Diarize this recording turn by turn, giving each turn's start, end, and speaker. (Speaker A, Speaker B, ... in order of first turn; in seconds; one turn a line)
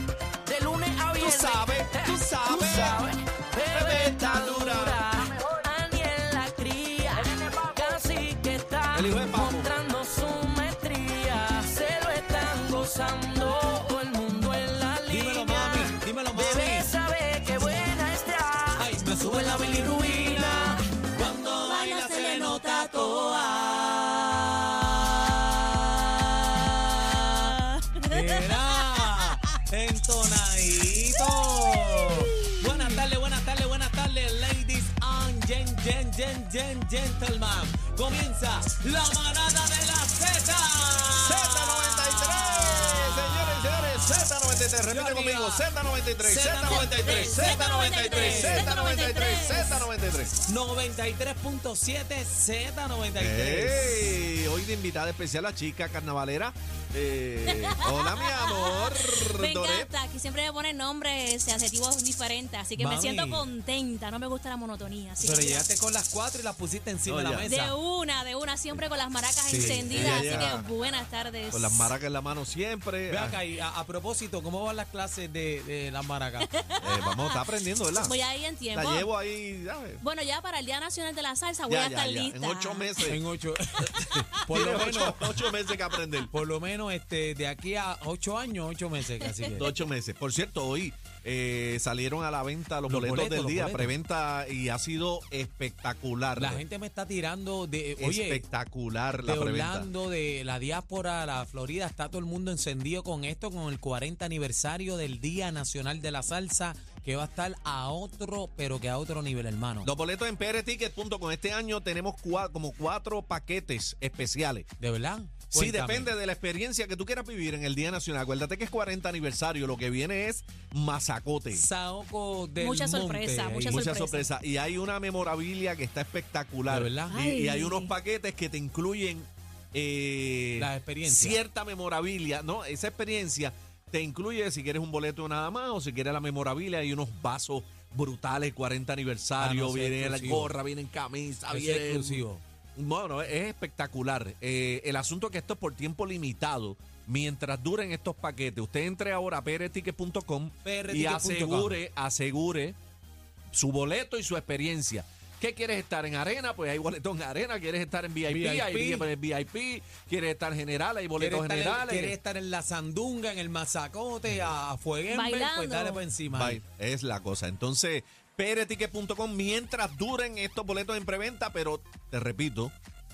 Speaker A: 0.5-20.8
Speaker B: 1.2-3.1
Speaker B: 3.7-5.1
Speaker B: 8.9-9.7
Speaker C: 15.1-16.9
Speaker C: 18.8-27.6
Speaker A: 21.6-22.0
Speaker D: 21.7-22.9
Speaker C: 28.1-44.2
Speaker B: 41.2-50.3
Speaker C: 44.9-45.6
Speaker C: 46.2-48.7
Speaker D: 46.8-49.8
Speaker C: 50.5-54.1
Speaker B: 53.2-59.9
Speaker D: 58.5-65.7
Speaker C: 62.8-63.5
Speaker C: 65.2-67.8
Speaker B: 67.1-67.5
Speaker D: 67.5-71.9
Speaker C: 69.5-70.6
Speaker B: 69.5-70.7
Speaker B: 71.5-73.4
Speaker C: 73.1-76.5
Speaker D: 76.6-77.1
Speaker B: 76.8-78.1
Speaker D: 78.0-79.1
Speaker B: 78.7-80.0
Speaker D: 80.0-83.0
Speaker B: 81.7-83.2
Speaker C: 83.1-85.4
Speaker B: 84.5-86.3
Speaker C: 86.3-89.7
Speaker B: 89.5-96.6
Speaker C: 92.8-94.0
Speaker C: 96.4-98.5
Speaker B: 98.0-99.9
Speaker C: 99.2-109.9
Speaker B: 109.8-114.7
Speaker C: 114.8-116.1
Speaker B: 115.5-121.7
Speaker C: 121.5-124.0
Speaker D: 122.6-124.3
Speaker B: 123.7-152.8
Speaker C: 126.7-127.3
Speaker D: 127.3-127.9
Speaker C: 130.6-131.4
Speaker C: 139.4-140.6
Speaker C: 141.5-142.4
Speaker C: 150.6-151.8
Speaker B: 153.5-162.2
Speaker C: 158.3-159.1
Speaker C: 161.2-166.6
Speaker D: 165.1-166.1
Speaker B: 166.3-172.7